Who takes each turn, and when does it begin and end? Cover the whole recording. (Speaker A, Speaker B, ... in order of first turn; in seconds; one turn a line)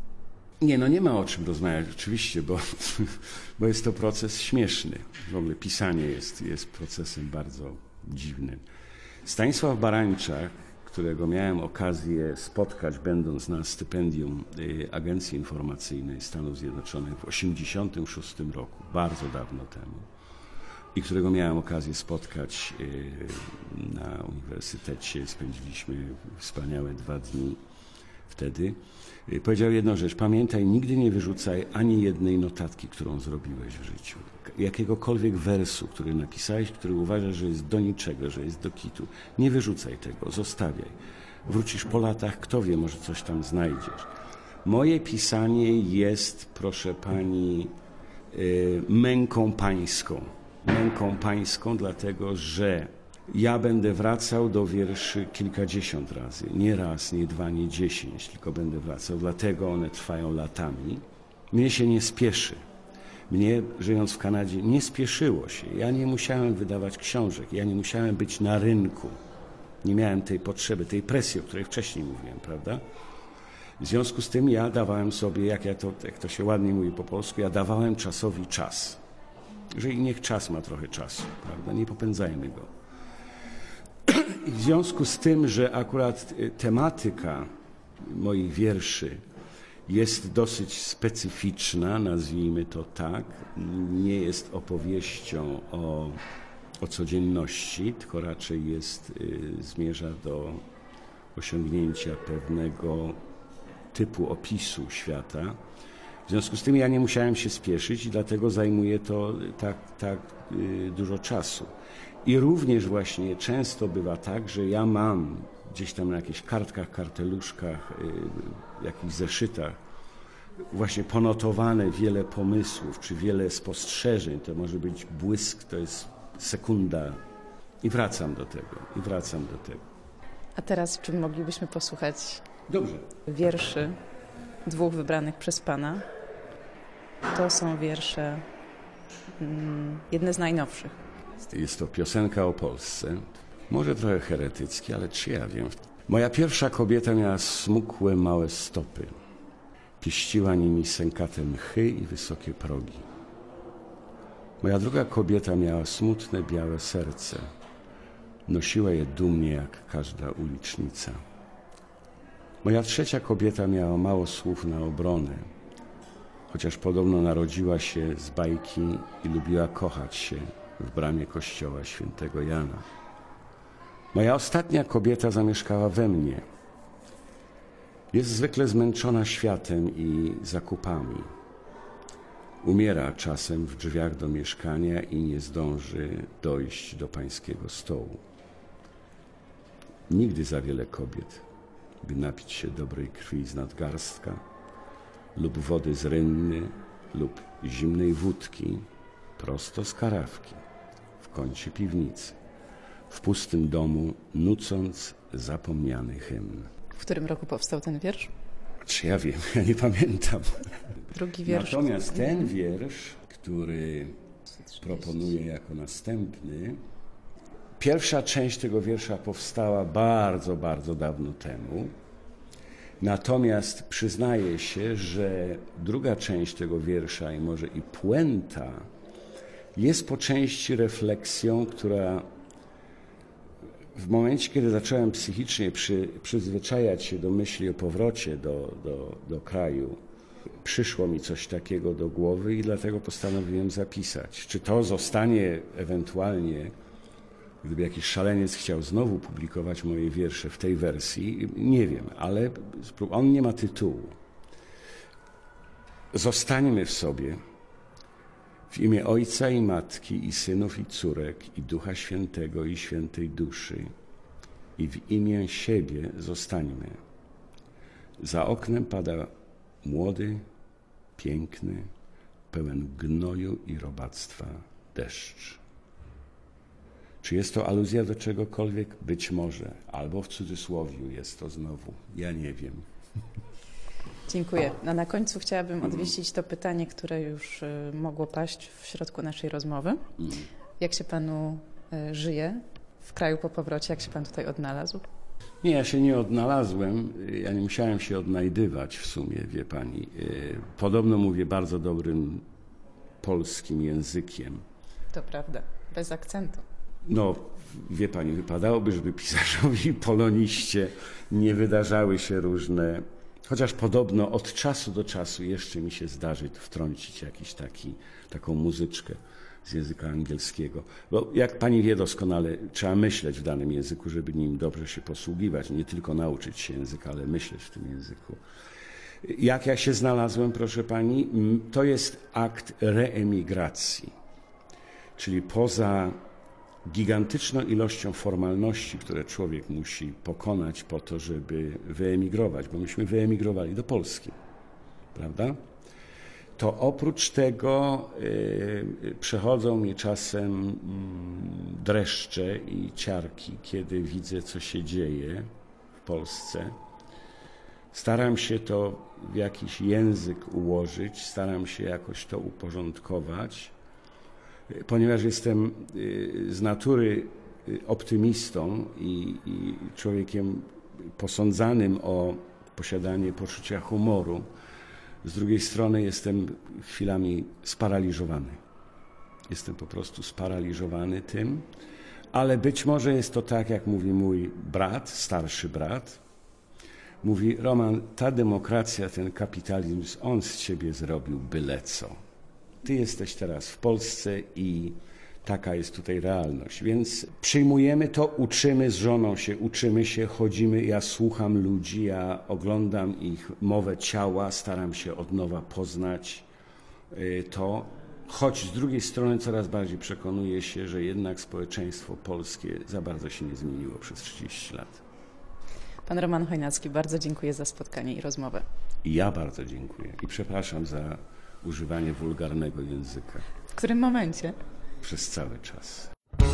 Speaker A: 0.6-8.6
Speaker A: 9.2-20.1
Speaker A: 20.9-27.6
Speaker A: 28.3-44.1
Speaker A: 44.6-47.7
Speaker A: 48.3-62.6
Speaker A: 63.3-69.2
Speaker A: 69.8-72.8
Speaker A: 73.8-79.0
Speaker A: 79.7-82.7
Speaker A: 84.0-87.5
Speaker A: 88.0-89.2
Speaker A: 89.9-96.2
Speaker A: 96.8-100.6
Speaker A: 101.3-103.2
Speaker A: 103.9-105.6
Speaker A: 106.3-111.7
Speaker A: 112.2-119.8
Speaker A: 120.7-127.2
Speaker A: 127.8-129.8
Speaker B: 130.6-132.4
Speaker A: 132.7-133.1
Speaker B: 133.3-134.0
Speaker B: 134.6-136.1
Speaker B: 137.3-138.4
Speaker B: 139.4-140.9
Speaker A: 141.4-149.1
Speaker A: 150.0-153.1
Speaker A: 154.6-157.5
Speaker A: 158.5-161.2
Speaker A: 162.6-165.4
Speaker A: 166.5-172.8
Speaker A: 174.1-176.4
Speaker A: 178.1-181.3
Speaker A: 182.6-188.2
Speaker A: 190.1-191.4
Speaker A: 192.0-194.4
Speaker A: 195.3-198.8
Speaker A: 199.4-200.6
Speaker A: 201.2-202.3
Speaker A: 203.1-206.7
Speaker B: 206.9-208.3
Speaker A: 208.8-210.6
Speaker B: 211.1-212.5
Speaker A: 211.4-214.2
Speaker A: 214.8-216.8
Speaker A: 217.8-221.9
Speaker A: 223.0-228.8
Speaker A: 229.7-232.2
Speaker A: 233.9-240.0
Speaker A: 240.6-246.7
Speaker A: 247.6-254.2
Speaker A: 256.1-257.4
Speaker A: 258.7-263.9
Speaker A: 264.8-267.0
Speaker A: 268.2-269.3
Speaker A: 269.8-270.4
Speaker A: 271.1-271.9
Speaker A: 272.5-275.6
Speaker A: 277.2-282.8
Speaker B: 284.3-290.0
Speaker B: 290.8-295.0
Speaker A: 295.6-302.4
Speaker A: 303.2-304.6
Speaker B: 305.1-306.6
Speaker A: 307.1-328.4
Speaker A: 329.2-334.1
Speaker A: 335.2-336.2
Speaker A: 336.9-344.3
Speaker A: 345.1-345.6
Speaker A: 346.6-355.5
Speaker A: 356.0-356.7
Speaker A: 357.9-363.7
Speaker A: 364.7-374.5
Speaker A: 375.2-378.6
Speaker A: 379.5-381.6
Speaker A: 382.3-386.2
Speaker A: 387.2-392.1
Speaker A: 392.8-406.5
Speaker A: 407.1-415.0
Speaker B: 416.1-418.6
Speaker A: 419.0-423.4
Speaker B: 423.7-424.6
Speaker A: 425.0-426.1